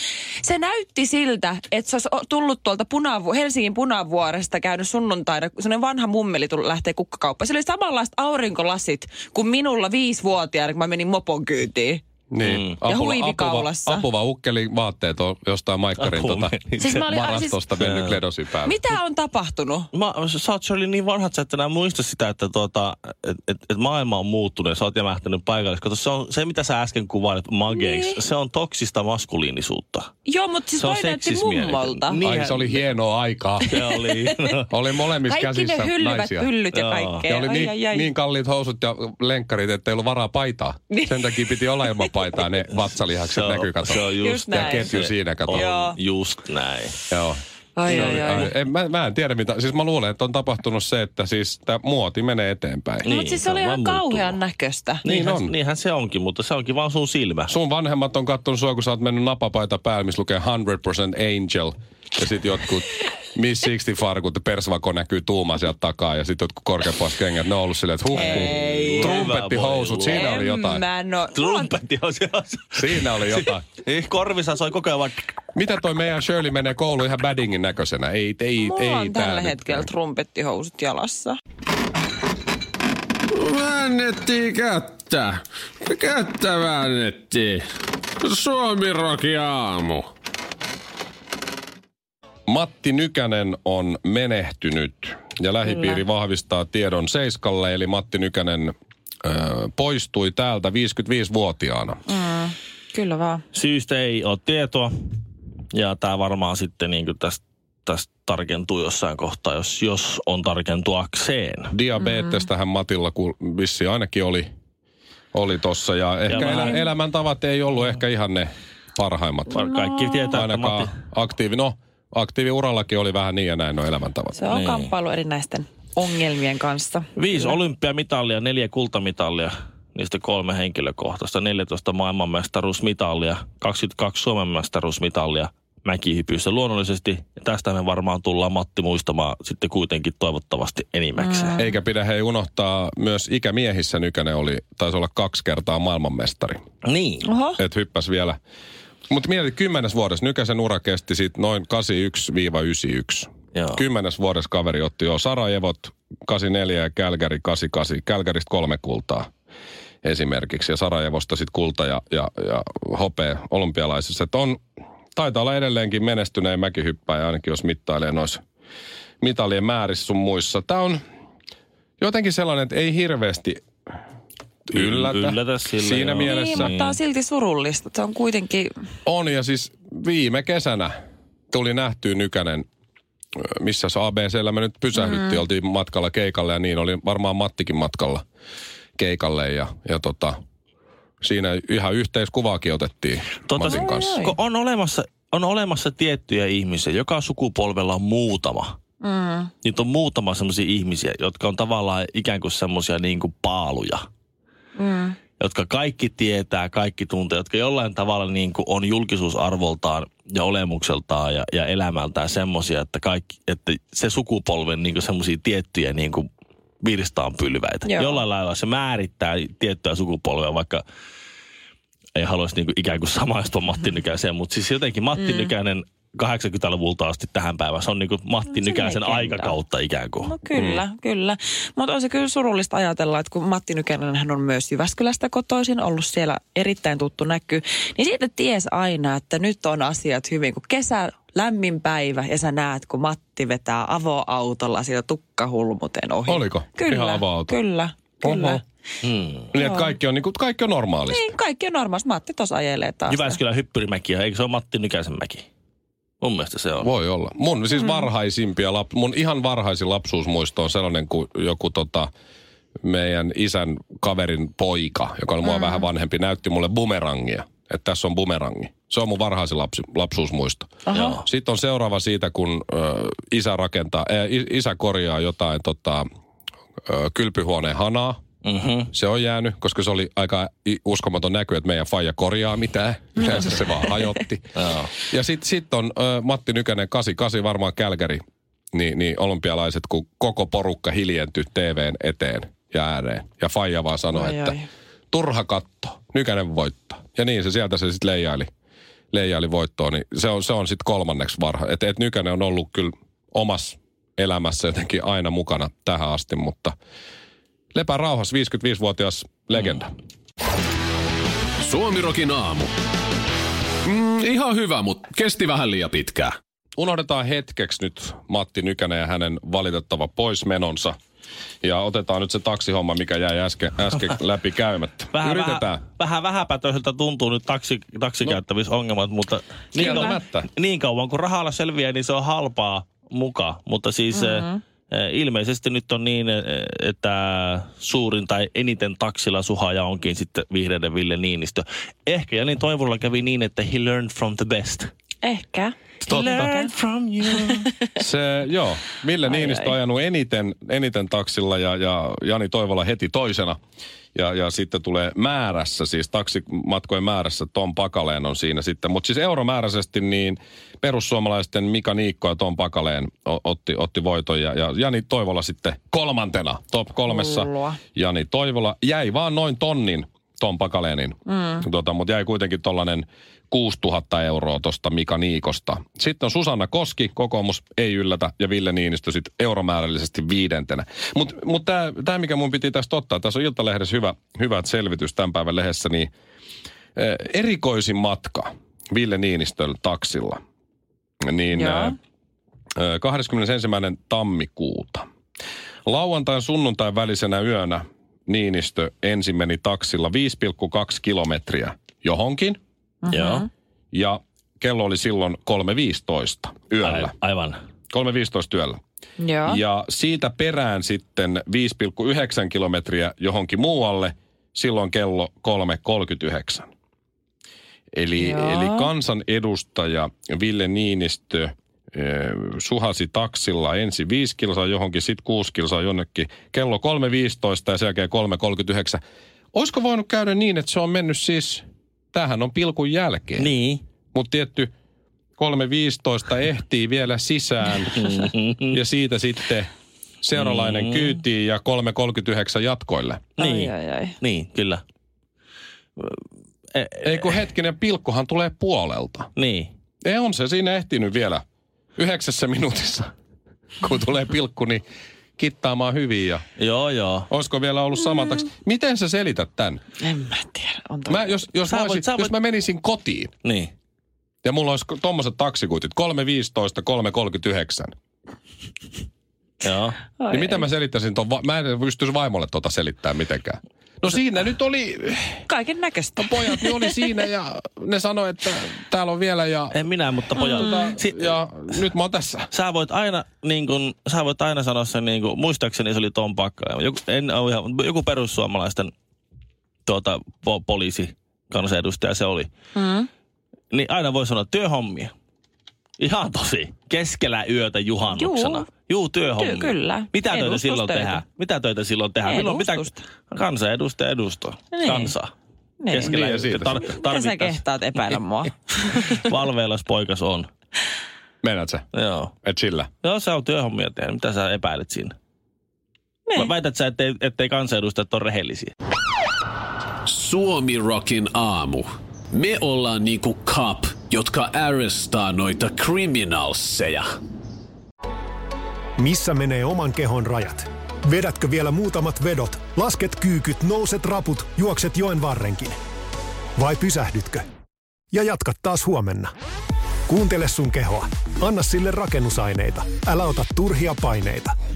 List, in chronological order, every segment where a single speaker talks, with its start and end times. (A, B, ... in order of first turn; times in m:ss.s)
0:00.4-0:12.0 A
0:12.3-0:18.8 B
0:12.4-0:12.8 C
0:12.8-0:14.1 A
0:16.0-0:17.0 C
0:16.8-0:17.6 A
0:17.8-0:18.2 C
0:18.6-0:19.9 A
0:19.9-0:30.1 C
0:27.7-0:28.2 A
0:30.3-0:32.2 A
0:30.8-0:32.8 C
0:32.2-0:33.8 B
0:33.7-0:34.7 C
0:33.8-0:34.5 A
0:34.7-0:36.5 B
0:35.2-0:38.1 A
0:36.7-0:37.3 C
0:37.3-0:45.7 B
0:40.9-0:42.2 A
0:43.3-0:47.0 C
0:44.1-0:44.9 A
0:45.5-0:46.0 A
0:47.1-0:53.1 B
0:47.8-0:48.5 A
0:47.9-0:48.5 C
0:53.0-0:54.4 C
0:53.0-0:55.0 A
0:55.0-0:57.5 C
0:55.0-0:55.5 B
0:57.5-1:10.8 B
1:08.1-1:09.4 A
1:08.1-1:10.4 C
1:10.1-1:11.8 A
1:11.3-1:15.3 C
1:12.7-1:13.6 B
1:15.6-1:19.9 B
1:18.6-1:21.4 A
1:23.3-1:27.6 D
1:28.2-1:30.1 D
1:32.5-1:42.0 B
1:35.6-1:36.0 A
1:42.1-1:43.4 A
1:43.5-1:44.9 C
1:45.7-1:51.7 C
1:51.7-1:54.5 B
1:52.0-1:52.5 A
1:55.3-1:59.7 B
1:56.3-1:56.9 C
1:56.4-1:56.7 A
1:59.5-2:00.9 C
1:59.6-2:00.4 A
2:00.3-2:04.4 B
2:04.4-2:07.6 A
2:04.5-2:04.9 C
2:07.2-2:21.6 C
2:21.2-2:21.7 A
2:21.6-2:26.6 B
2:26.8-2:27.3 C
2:27.2-2:27.6 A
2:27.6-2:28.4 B
2:29.1-2:39.3 B
2:33.5-2:33.8 C
2:40.0-2:44.6 B
2:45.2-2:48.4 B
2:49.2-2:51.0 B
2:52.0-2:53.6 B
2:54.7-2:56.7 B
2:54.7-2:57.0 C
2:56.2-2:58.7 A
2:59.1-3:00.9 B
3:01.5-3:02.6 B
3:03.4-3:08.2 B
3:05.0-3:05.4 A
3:09.0-3:10.4 B
3:11.2-3:14.2 B
3:13.5-3:18.8 C
3:13.6-3:14.4 A
3:19.0-3:19.5 A
3:19.6-3:24.0 C
3:24.8-3:25.2 A
3:25.4-3:36.3 C
3:36.8-3:40.8 C
3:37.8-3:38.2 A
3:42.2-3:50.3 C
3:45.2-3:45.5 A
3:48.5-3:49.6 A
3:50.2-4:08.6 A
3:50.5-3:50.8 B
4:06.3-4:07.6 B
4:08.2-4:08.6 B
4:09.0-4:09.5 C
4:09.5-4:11.4 B
4:09.6-4:10.0 A
4:11.1-4:13.4 A
4:13.1-4:15.5 C
4:16.2-4:16.9 C
4:16.8-4:22.1 B
4:17.7-4:18.1 A
4:22.8-4:36.0 B
4:25.4-4:25.9 A
4:30.9-4:31.2 A
4:30.9-4:31.2 C
4:36.9-4:38.2 B
4:38.4-4:38.9 C
4:38.9-4:48.2 B
4:44.5-4:44.9 C
4:48.7-4:54.6 B
4:54.1-4:54.7 A
4:55.1-4:58.5 B
4:59.1-5:06.8 B
5:07.7-5:09.9 B
5:11.6-5:12.7 D
5:13.8-5:16.3 D
5:16.8-5:21.0 B
5:21.6-5:25.8 B
5:25.1-5:44.9 C
5:29.7-5:30.5 B
5:29.8-5:30.1 A
5:34.2-5:34.5 A
5:45.2-5:46.7 A
5:46.1-5:46.5 B
5:46.1-5:47.7 C
5:47.2-5:47.9 A
5:48.0-5:53.6 B
5:49.2-5:49.7 A
5:54.1-6:26.1 B
6:07.1-6:07.8 A
6:11.3-6:11.6 A
6:27.0-6:30.4 B
6:31.2-6:32.0 B
6:31.5-6:32.0 A
6:32.8-6:35.0 B
6:35.9-6:42.6 B
6:43.0-6:43.5 A
6:43.1-6:43.5 C
6:43.9-6:47.1 B
6:46.8-6:47.6 C
6:47.9-6:48.8 B
6:49.2-6:49.6 A
6:49.4-6:56.7 B
6:57.9-7:09.0 B
6:58.2-6:58.9 A
7:09.5-7:13.6 B
7:13.4-7:13.8 C
7:14.1-7:14.7 B
7:15.4-7:18.0 B
7:17.9-7:18.8 C
7:18.7-7:19.7 B
7:20.2-7:23.3 B
7:20.3-7:21.2 C
7:23.4-7:24.8 C
7:23.4-7:24.2 A
7:26.7-7:27.3 C
7:27.0-7:29.3 B
7:29.4-7:29.7 C
7:30.0-7:31.4 B
7:32.0-7:33.1 B
7:33.8-7:34.8 B
7:35.4-7:36.4 B
7:36.6-7:37.3 C
7:37.3-7:39.8 B
7:40.0-7:41.5 A
7:41.1-7:43.3 B
7:41.7-7:42.4 C
7:43.4-7:43.7 C
7:44.4-7:47.9 B
7:49.6-7:50.0 C
7:50.2-7:50.7 A
7:50.3-7:55.4 B
7:55.4-7:57.1 A
7:56.2-7:59.8 B
7:59.7-8:01.8 C
8:00.4-8:00.8 A
8:00.4-8:02.5 B
8:02.5-8:08.9 C
8:09.9-8:12.5 C
8:12.8-8:13.1 A
8:13.7-8:15.1 C
8:16.0-8:25.3 C
8:18.1-8:18.7 A
8:19.4-8:21.2 A
8:22.2-8:23.0 A
8:24.7-8:25.2 A
8:25.8-8:29.2 A
8:25.9-8:27.6 C
8:26.0-8:27.0 B
8:29.0-8:30.5 C
8:31.4-8:31.9 B
8:31.9-8:32.3 C
8:32.4-8:32.9 B
8:33.0-8:35.2 C
8:36.4-8:38.7 C
8:40.1-8:47.1 D
8:49.0-8:55.8 E
8:56.6-8:57.4 E
8:58.1-8:59.3 E
9:00.1-9:04.5 E